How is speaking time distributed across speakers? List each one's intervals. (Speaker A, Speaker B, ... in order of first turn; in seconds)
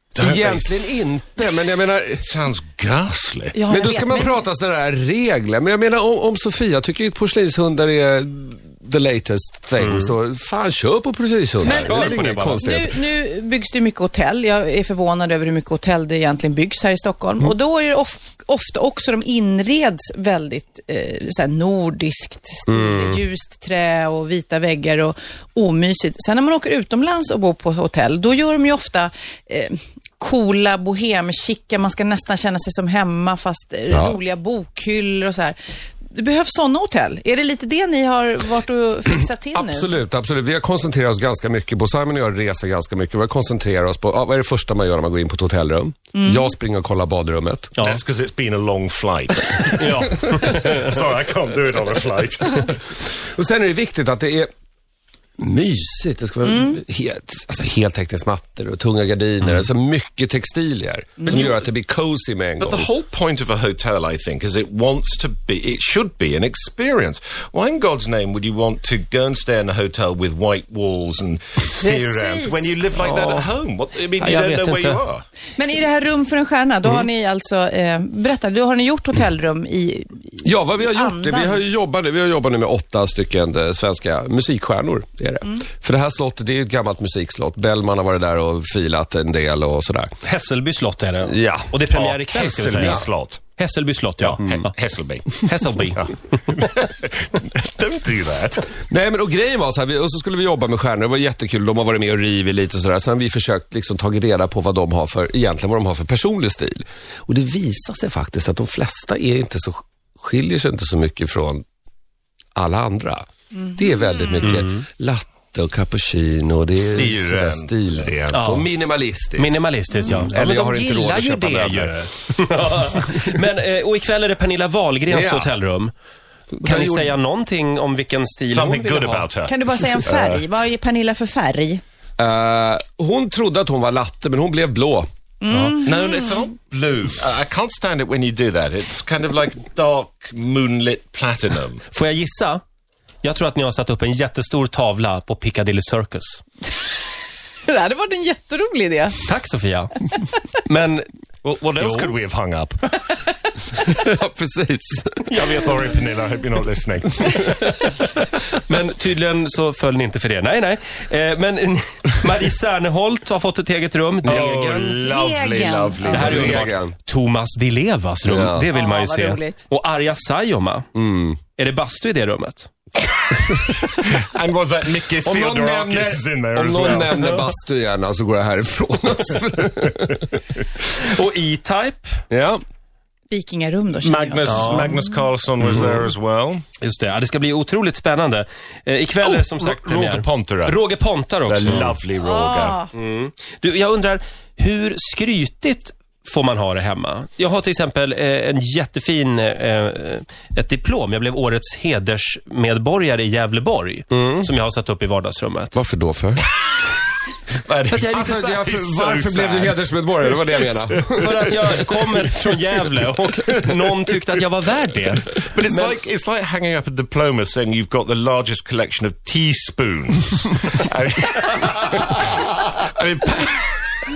Speaker A: 0.2-1.0, 2.2-3.6, 47.8-52.8, 61.3-61.6, 62.6-75.2, 91.9-93.4, 94.2-98.8, 116.8-118.3, 128.5-130.4, 135.8-141.8, 151.4-153.0, 155.3-157.6, 164.2-166.7, 173.6-177.2, 184.0-186.6, 189.2-190.8, 191.4-192.8, 207.6-212.2, 215.4-223.8
Speaker B: 0.2-2.3, 3.7-12.9, 22.7-23.2, 33.9-34.2, 39.1-47.8, 52.6-54.5, 55.4-62.9, 80.4-90.1, 91.2-91.8, 98.9-111.6, 112.5-122.0, 125.1-125.5, 126.5-127.1, 132.2-135.1, 153.8-155.6, 157.3-157.9, 166.1-166.9, 168.2-168.7, 170.9-171.4, 175.2-180.3, 182.3-182.6, 204.1-204.5, 205.7-206.4, 208.0-211.6
Speaker C: 3.5-4.4, 11.6-35.6, 36.1-39.9, 46.1-46.5, 56.4-56.8, 71.8-72.8, 75.6-81.6, 129.4-131.8, 135.4-136.2, 147.6-149.2, 165.1-166.4, 168.7-169.7, 183.3-185.1, 192.2-192.9
Speaker D: 9.8-10.1, 11.6-12.7, 47.8-48.0, 49.7-51.0, 73.0-73.5, 74.2-75.0, 90.2-94.7, 95.3-96.3, 114.4-114.8, 118.3-118.7, 119.4-125.9, 126.6-129.2, 135.5-135.8, 141.9-142.6, 143.2-146.4, 149.2-151.1, 151.8-152.1, 158.5-165.0, 166.1-170.9, 171.5-172.7, 180.8-182.2, 184.4-184.9, 185.6-186.0, 186.8-192.0, 192.9-205.7, 207.9-208.6, 211.2-216.0